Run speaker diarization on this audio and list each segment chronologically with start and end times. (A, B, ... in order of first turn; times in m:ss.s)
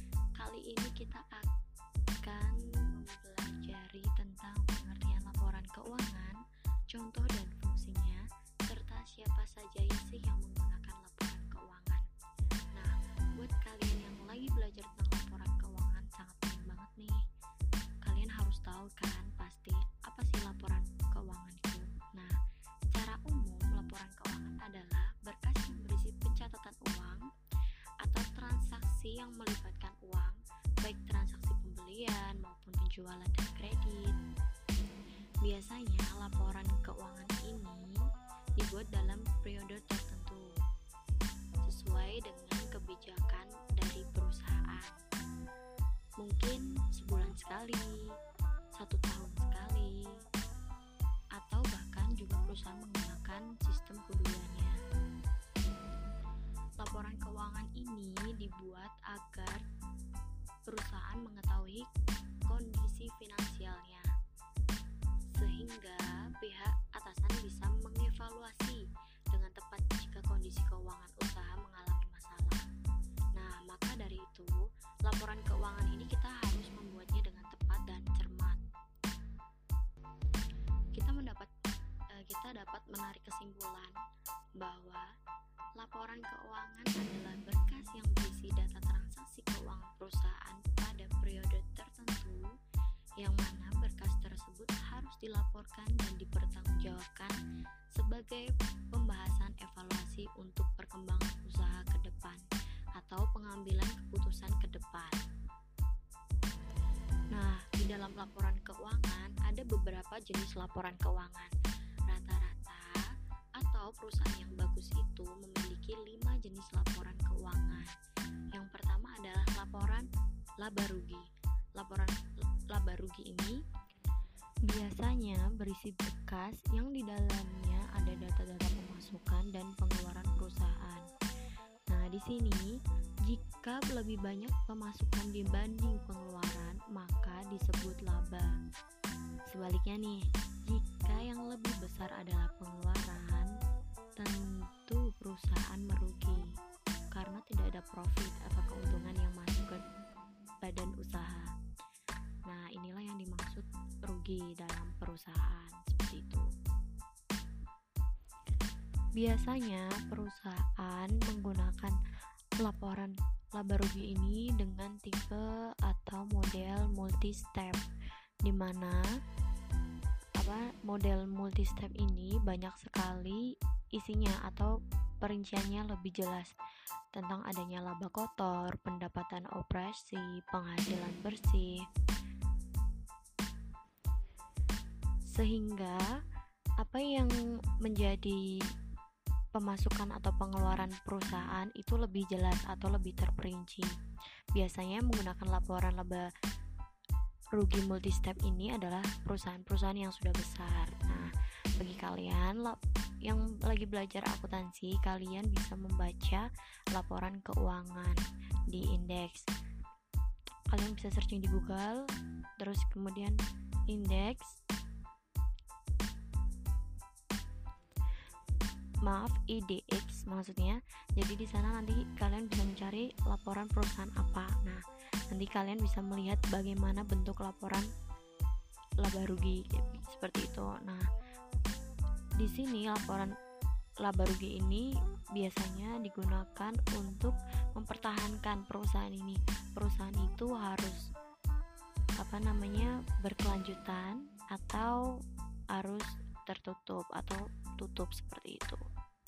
0:00.4-0:01.5 A
0:02.2-0:06.4 A
0:06.9-0:12.1 A
0:12.8-0:17.2 A
0:18.0-0:22.4 A
0:22.9-0:27.2 A
0:28.0-0:34.2 A
0:35.4-0:38.0 A
0:38.6-0:40.5 A
0:41.6-0:45.0 A
0:46.2-0:48.1 A
0:48.8-0:50.2 A
0:51.4-0:54.8 A
0:56.8-0:59.6 A
1:00.7-1:01.9 A
1:02.5-1:04.1 A
1:05.4-1:12.6 A
1:13.4-1:18.6 A
1:20.9-1:21.5 A
1:22.1-1:24.0 A
1:24.6-1:25.1 A
1:25.8-1:32.5 A
1:33.2-1:37.4 A
1:38.0-1:42.4 A
1:43.0-1:45.2 A
1:47.3-1:51.6 A
1:52.1-1:57.9 A
1:58.5-2:00.1 A
2:00.6-2:02.2 A
2:02.7-2:03.6 A
2:04.7-2:11.1 A
2:11.9-2:18.5 A
2:19.5-2:23.5 A
2:24.2-2:26.5 A
2:27.1-2:29.8 A
2:30.6-2:31.5 A
2:32.5-2:36.5 A
2:39.2-2:42.0 A
2:42.6-2:47.8 A
2:48.4-2:49.0 A
2:50.4-2:56.5 A
2:57.1-3:01.8 A
3:05.3-3:06.1 A
3:06.8-3:08.4 A
3:09.6-3:13.9 A
3:14.6-3:16.3 A
3:17.6-3:29.5 A
3:30.7-3:34.6 A
3:39.0-3:47.9 A
3:49.0-3:51.1 A
3:52.4-3:53.3 A
3:54.0-4:01.0 A
4:02.2-4:05.0 A
4:05.7-4:08.8 A